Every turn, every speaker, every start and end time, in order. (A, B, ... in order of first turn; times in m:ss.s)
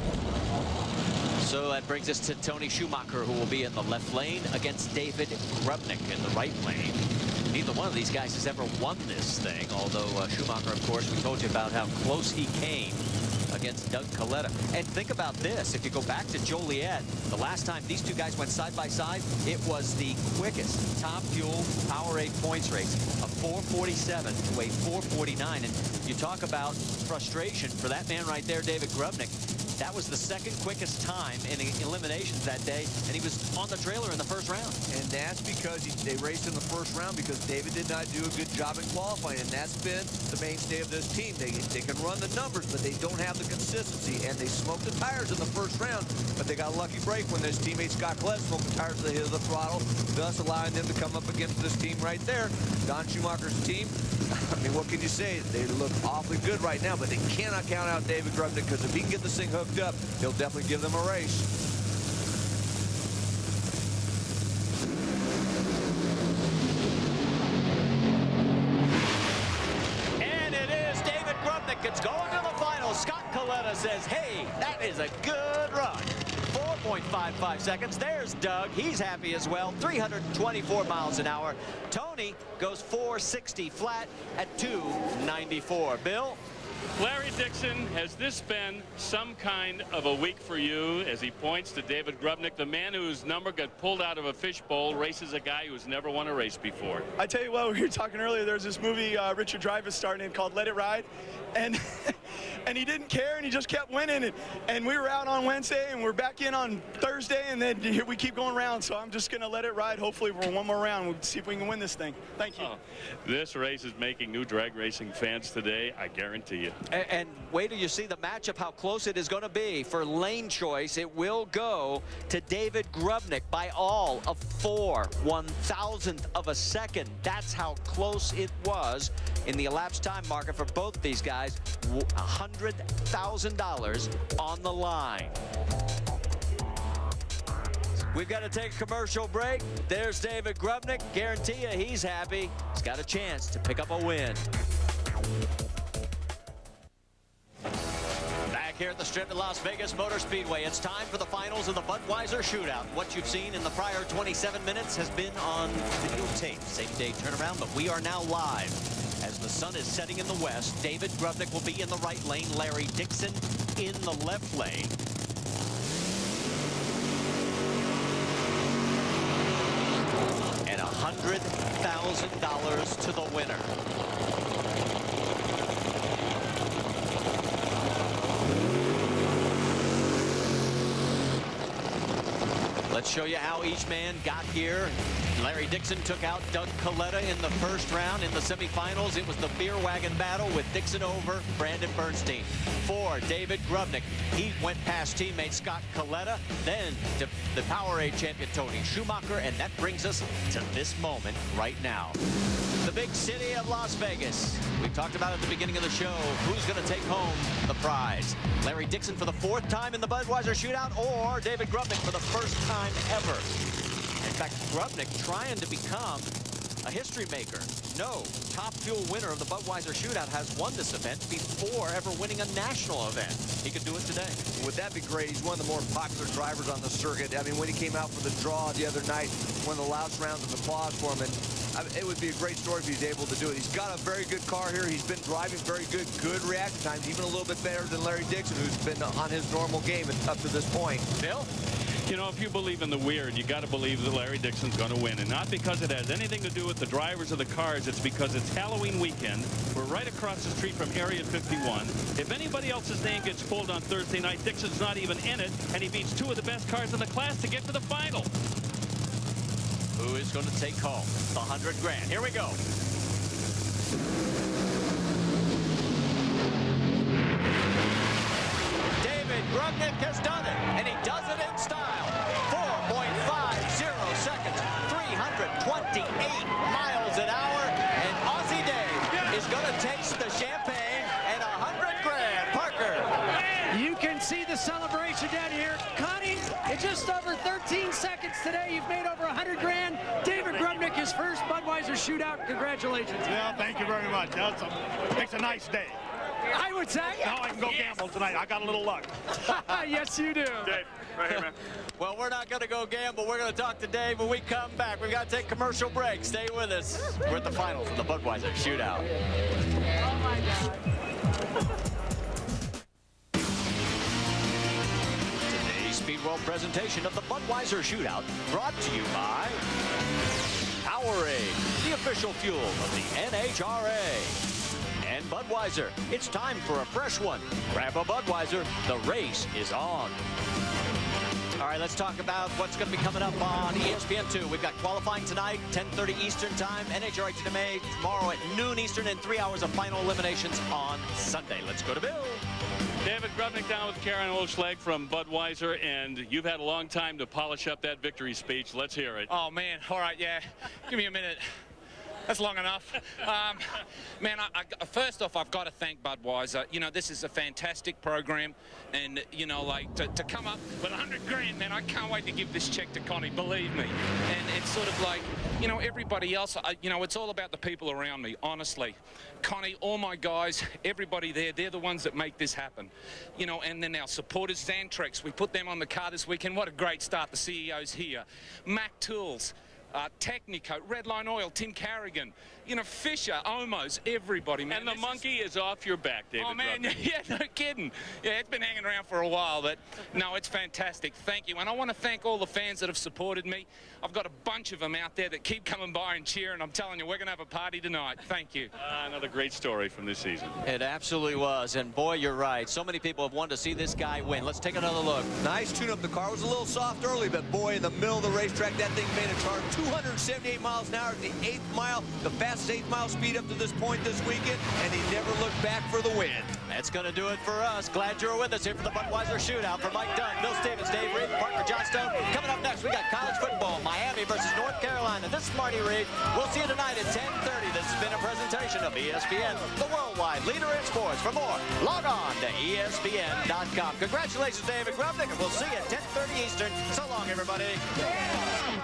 0:01.4-0:34.8 A
0:34.9-1:01.5 B
1:10.2-1:26.4 A
1:27.0-1:37.0 C
1:37.2-1:52.7 D
1:52.6-1:56.8 C
1:56.9-2:15.4 A
2:18.1-2:24.4 A
2:28.5-2:45.0 A
2:50.6-2:53.7 A
3:02.9-3:22.2 A
3:22.8-3:33.5 A
3:34.2-3:36.3 A
3:36.8-3:44.4 A
3:44.5-4:01.1 B
4:01.2-4:01.5 A
4:02.0-4:18.3 C
4:20.0-4:22.6 A
4:29.0-4:43.1 A
4:43.7-4:53.8 E
4:53.3-4:56.0 F
4:56.5-4:57.4 E
4:57.2-4:59.2 F
4:59.4-5:00.8 E
5:00.7-5:01.5 C
5:02.0-5:09.1 A
5:15.5-5:19.6 A
5:20.8-5:24.4 A
5:25.0-5:30.2 A
5:31.6-5:42.4 A
5:43.0-5:49.3 C
5:49.3-5:51.4 G
5:52.3-6:25.2 G
6:24.7-6:27.0 C
6:26.4-6:38.7 G
6:38.8-6:40.6 C
6:40.6-6:45.3 A
6:45.4-6:56.6 B
6:56.7-7:17.8 A